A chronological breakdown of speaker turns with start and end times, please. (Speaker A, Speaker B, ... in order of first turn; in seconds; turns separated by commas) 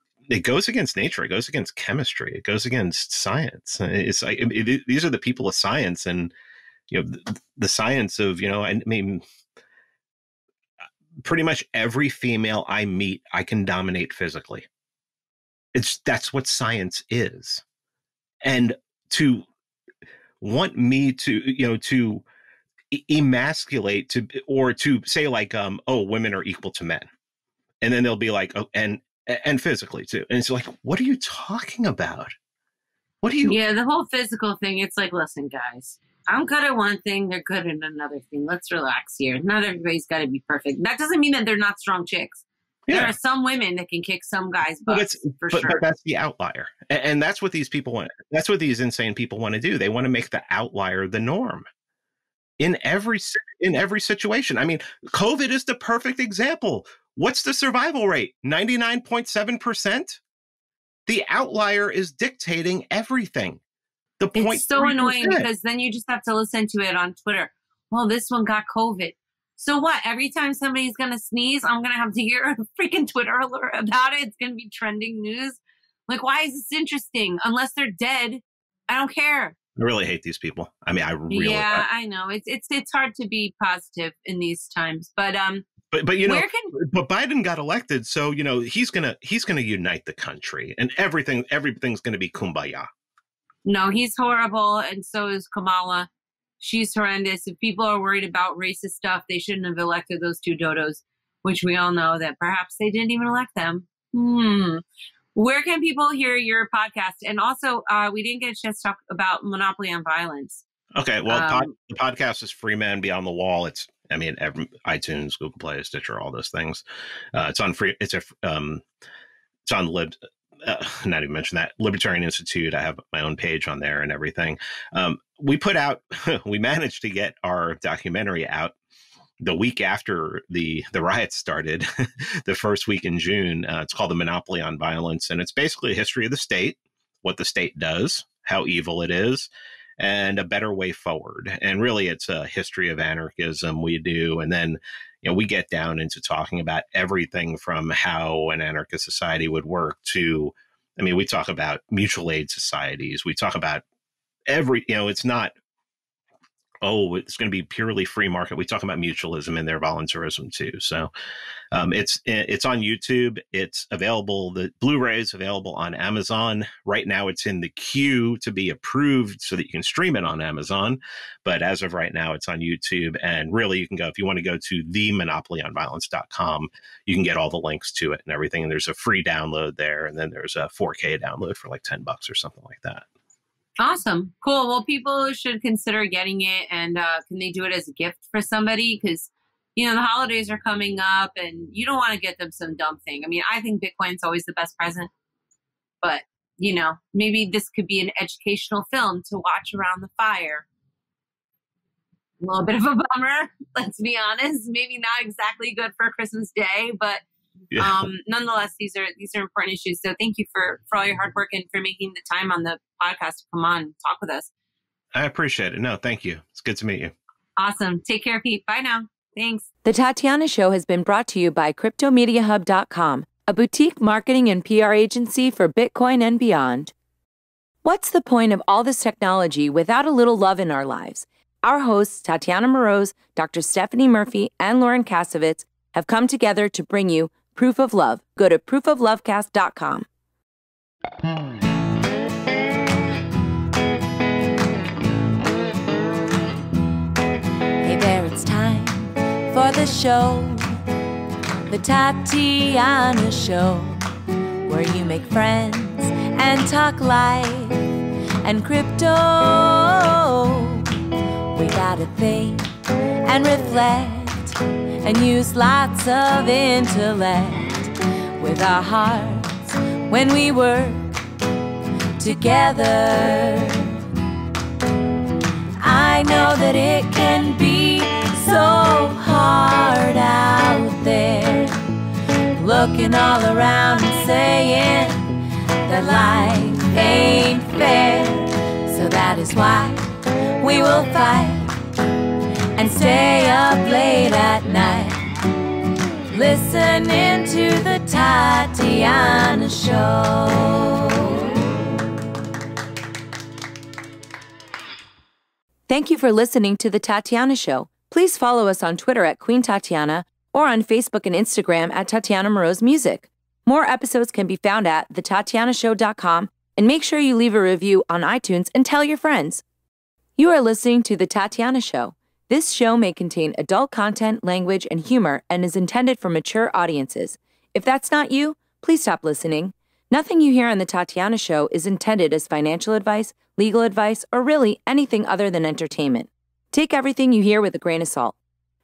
Speaker A: 0.3-6.3, Speaker A: 6.9-9.2, Speaker A: 11.2-14.7, Speaker A: 15.7-17.6, Speaker A: 18.4-19.5, Speaker A: 20.4-22.2, Speaker A: 22.9-27.1, Speaker A: 27.8-32.3, Speaker A: 33.2-33.6, Speaker B: 33.4-45.8, Speaker A: 42.9-43.1, Speaker A: 44.9-51.7, Speaker A: 52.6-60.2, Speaker A: 61.1-63.6, Speaker A: 64.2-65.5, Speaker B: 64.3-79.6, Speaker A: 79.8-81.8, Speaker B: 81.3-85.7, Speaker A: 85.9-92.9, Speaker B: 86.2-86.7, Speaker B: 93.7-96.1, Speaker B: 96.6-104.8, Speaker B: 105.3-110.6, Speaker A: 111.0-118.8, Speaker B: 111.3-111.7, Speaker A: 119.7-128.8, Speaker A: 129.4-153.8, Speaker A: 154.5-155.5, Speaker A: 156.8-161.1, Speaker A: 161.7-183.1, Speaker B: 183.8-195.1, Speaker B: 196.0-200.7, Speaker B: 202.4-207.2, Speaker A: 207.7-208.1, Speaker B: 207.8-214.5, Speaker A: 215.2-217.1, Speaker B: 217.6-219.7, Speaker C: 219.8-226.9, Speaker C: 227.8-240.1, Speaker C: 247.8-250.7, Speaker C: 251.7-254.0, Speaker C: 254.7-261.0, Speaker C: 261.5-262.7, Speaker C: 263.2-271.2, Speaker C: 272.2-274.0, Speaker C: 275.8-281.8, Speaker C: 282.6-285.3, Speaker C: 285.9-291.8, Speaker C: 292.8-295.4, Speaker C: 296.3-301.4, Speaker C: 305.9-319.6, Speaker C: 320.4-338.4